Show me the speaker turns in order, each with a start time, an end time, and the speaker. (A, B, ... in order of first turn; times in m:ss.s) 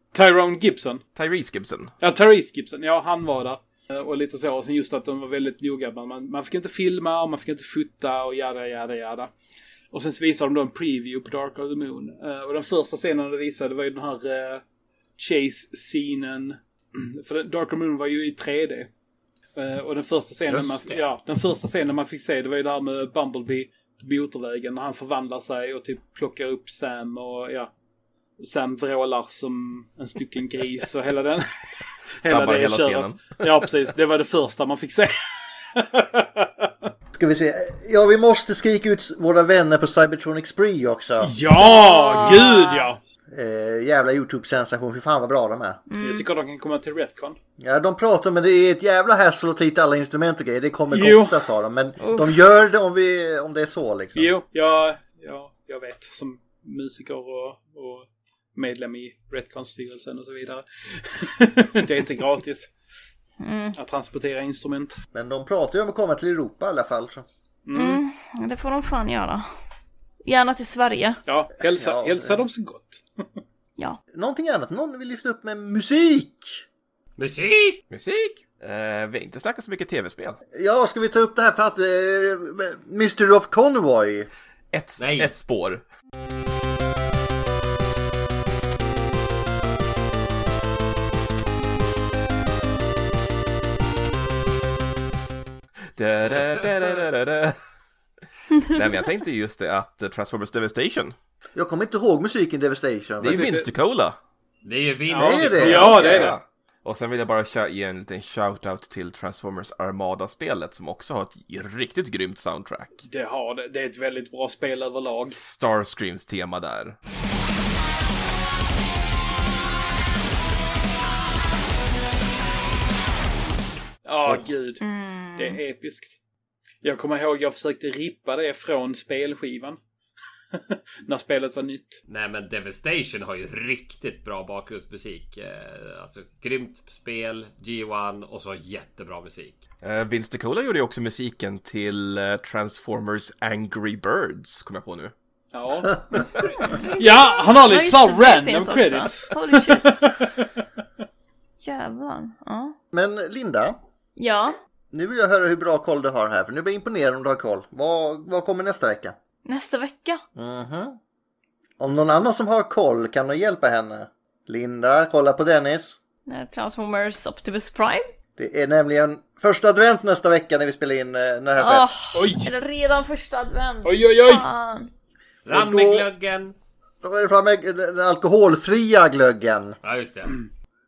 0:00.1-0:01.0 A
0:01.2-0:01.9 B
0:02.0-0:09.3 A
0:09.9-0:14.6 A
0:15.2-0:18.9 A
0:19.6-0:27.7 A
0:20.5-0:21.0 C
0:28.4-0:31.4 A
0:32.2-0:33.7 B
0:32.2-0:36.9 A
0:37.1-0:41.3 D
0:41.2-0:43.0 A
0:41.6-0:42.9 E
0:43.3-0:45.8 D
0:45.9-0:46.3 E
0:46.0-0:47.4 A
0:47.6-0:54.3 D
0:50.9-0:51.4 A
0:52.0-0:52.3 E
0:54.2-1:02.7 A
1:03.4-1:03.8 E
1:03.8-1:05.0 A
1:05.1-1:07.3 D
1:07.6-1:08.0 A
1:07.7-1:09.4 E
1:10.2-1:11.2 E
1:11.3-1:13.4 A
1:11.6-1:12.4 D
1:14.1-1:16.6 D
1:17.2-1:17.8 C
1:17.9-1:20.4 B
1:20.5-1:24.3 D
1:24.7-1:25.8 B
1:25.0-1:25.3 C
1:36.0-1:37.6 B
1:38.6-1:41.2 B
1:41.6-1:43.5 D
1:43.2-1:44.2 B
1:43.3-1:43.7 A
1:44.6-1:46.3 C
1:45.1-1:46.3 A
1:45.2-1:46.3 D
1:45.6-1:53.0 B
1:53.0-1:55.4 A
1:55.3-1:57.0 B
2:04.0-2:04.8 A
2:04.8-2:05.6 E
2:05.4-2:06.2 A
2:06.8-2:09.8 A
2:10.5-2:12.0 A
2:12.1-2:19.6 C
2:19.8-2:25.1 B
2:25.5-2:30.6 A
2:26.6-2:30.1 E
2:31.6-2:32.7 E
2:32.9-2:33.8 D
2:34.2-2:34.6 E
2:34.9-2:39.2 D
2:39.4-2:40.2 E
2:40.4-2:41.0 D
2:41.8-2:46.0 D
2:46.3-2:48.1 E
2:48.4-2:51.9 D
2:51.6-2:54.9 E
2:52.1-2:52.5 A
2:53.8-2:54.5 A
2:55.4-2:56.6 C
2:55.5-2:56.1 D
2:57.0-2:59.8 D
2:59.8-3:00.4 C